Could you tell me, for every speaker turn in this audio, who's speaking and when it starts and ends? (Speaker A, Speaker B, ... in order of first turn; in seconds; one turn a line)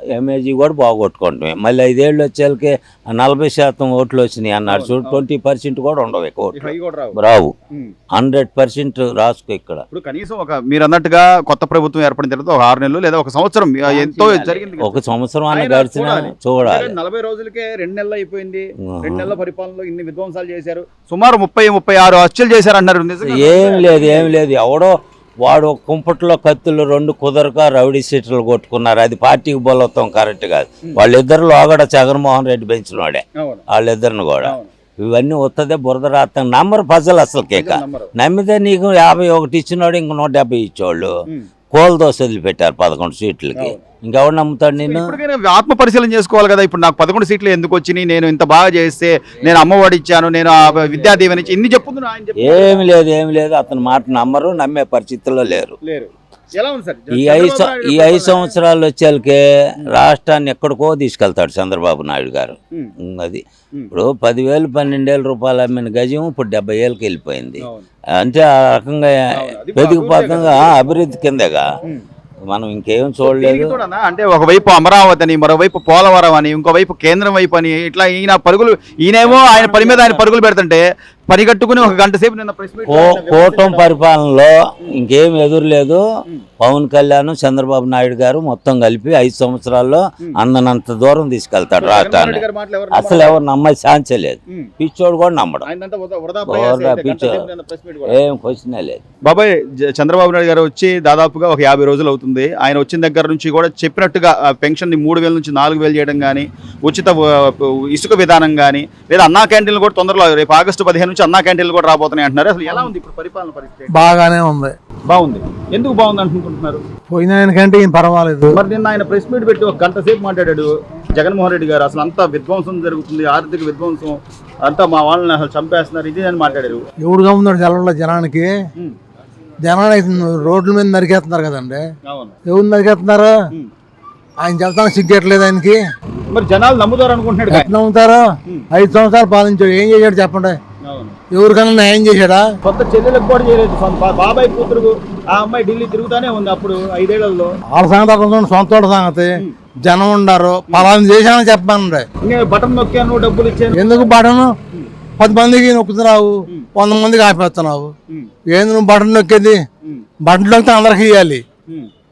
Speaker A: 0.1-7.5
Speaker B: 4.7-5.2
Speaker B: 6.5-7.2
Speaker A: 8.1-9.8
Speaker B: 9.9-15.0
Speaker A: 13.9-16.9
Speaker B: 15.5-24.3
Speaker A: 19.0-19.3
Speaker A: 23.2-41.1
Speaker B: 34.4-34.7
Speaker B: 37.5-38.1
Speaker A: 41.7-45.1
Speaker B: 44.8-52.8
Speaker A: 52.4-55.8
Speaker B: 55.8-58.5
Speaker A: 57.1-62.6
Speaker A: 63.1-69.1
Speaker B: 67.6-67.9
Speaker B: 69.3-70.7
Speaker A: 69.7-71.6
Speaker A: 72.5-73.7
Speaker B: 73.2-84.0
Speaker A: 79.2-80.2
Speaker A: 82.9-86.0
Speaker A: 86.6-95.7
Speaker B: 91.8-93.4
Speaker B: 95.6-98.2
Speaker A: 96.5-97.5
Speaker A: 98.0-99.0
Speaker B: 99.2-114.0
Speaker C: 113.9-114.7
Speaker B: 115.1-116.8
Speaker C: 117.1-118.6
Speaker B: 118.5-126.8
Speaker C: 127.0-128.5
Speaker C: 129.6-131.8
Speaker B: 132.1-132.3
Speaker C: 132.5-133.4
Speaker C: 134.4-135.8
Speaker B: 136.3-137.7
Speaker C: 137.5-140.6
Speaker B: 140.8-141.2
Speaker C: 141.3-142.4
Speaker B: 142.6-147.5
Speaker C: 147.7-152.1
Speaker B: 152.2-154.1
Speaker C: 153.7-154.5
Speaker C: 155.2-157.9
Speaker C: 158.5-159.6
Speaker C: 160.2-161.4